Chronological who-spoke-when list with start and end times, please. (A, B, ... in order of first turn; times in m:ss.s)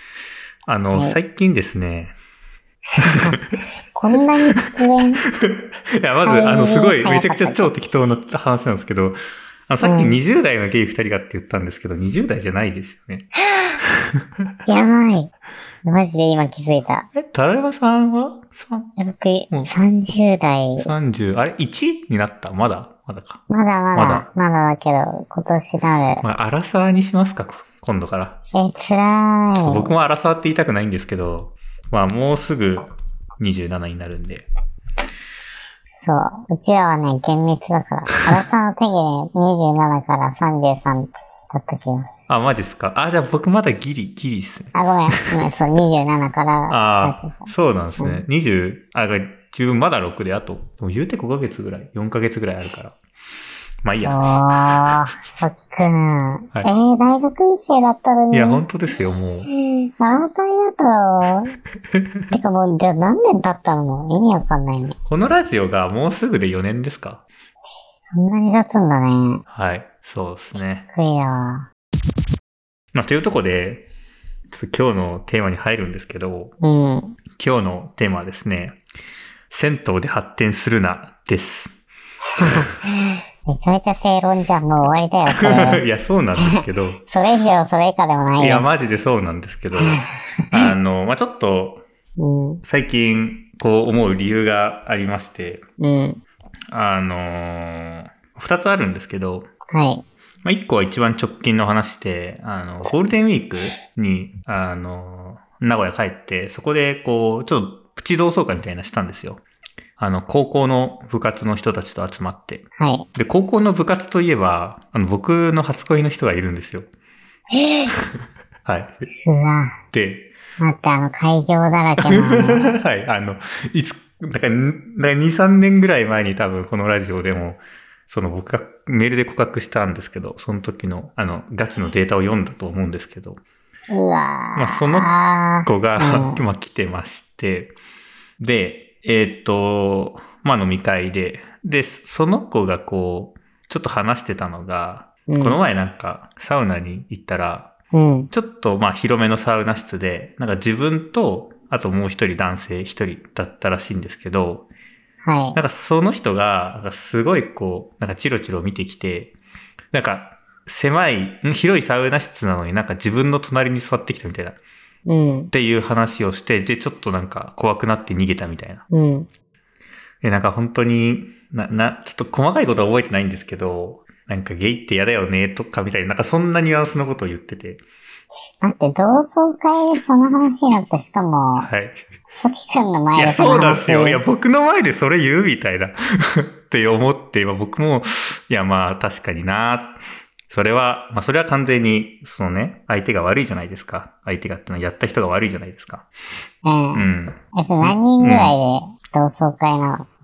0:00.6-0:02.1 A
0:02.9-0:03.4 B
0:03.9-0:05.2 B
0:04.5-0:09.2 A
0:06.2-0:07.7 B
0:09.7-0:13.3 A
0:09.8-0:10.2 B
0:13.8-0:14.5 A
0:14.6-0:15.3 B
0:15.8-0:17.1 B
0:17.1-0:18.9 A
0:19.0-0:20.9 B
0:20.8-0:23.4 A
0:23.5-0:26.2 B
0:23.9-0:24.3 A
0:26.2-0:28.4 A
0:28.5-0:29.9 B
0:29.6-0:32.9 A
0:33.4-0:34.4 A
0:36.0-0:42.1 B
0:42.3-0:45.2 A
0:44.7-0:48.2 B
0:46.7-0:52.9 A
0:53.8-0:54.9 A
0:54.0-0:58.6 B
0:58.3-0:59.5 A
0:59.6-1:01.6 B
1:01.9-1:02.3 A
1:02.3-1:05.0 B
1:05.0-1:07.2 A
1:08.1-1:09.4 B
1:09.5-1:10.9 A
1:10.9-1:11.7 B
1:12.9-1:13.8 A
1:14.5-1:16.5 A
1:16.6-1:17.2 B
1:17.4-1:18.8 A
1:19.5-1:21.8 A
1:22.3-1:25.8 B
1:25.3-1:27.0 A
1:26.4-1:28.6 B
1:28.4-1:30.0 A
1:29.7-1:30.7 B
1:30.5-1:31.8 A
1:32.2-1:32.6 B
1:32.6-1:35.6 A
1:35.8-1:36.2 B
1:36.7-1:39.4 A
1:39.7-1:40.0 B
1:40.4-1:49.4 A
1:50.0-1:52.6 A
1:52.8-1:53.0 B
1:53.1-1:56.9 A
1:57.5-1:57.9 B
1:58.6-1:58.9 A
1:59.2-1:59.8 B
1:59.9-2:00.3 A
2:00.6-2:02.8 B
2:02.0-2:13.4 A
2:13.9-2:16.4 B
2:14.6-2:15.1 A
2:15.6-2:17.7 A
2:18.4-2:27.7 A
2:25.3-2:25.6 B
2:27.9-2:28.3 B
2:28.3-2:34.6 A
2:35.2-2:35.6 B
2:35.5-2:39.3 A
2:39.9-2:44.6 A
2:45.0-2:45.5 B
2:45.5-2:48.8 A
2:48.9-2:49.3 B
2:50.2-2:57.8 A
2:58.6-3:01.7 B
3:01.6-3:02.0 A
3:02.4-3:04.2 B
3:03.2-3:16.1 A
3:16.6-3:20.1 B
3:16.9-3:18.6 A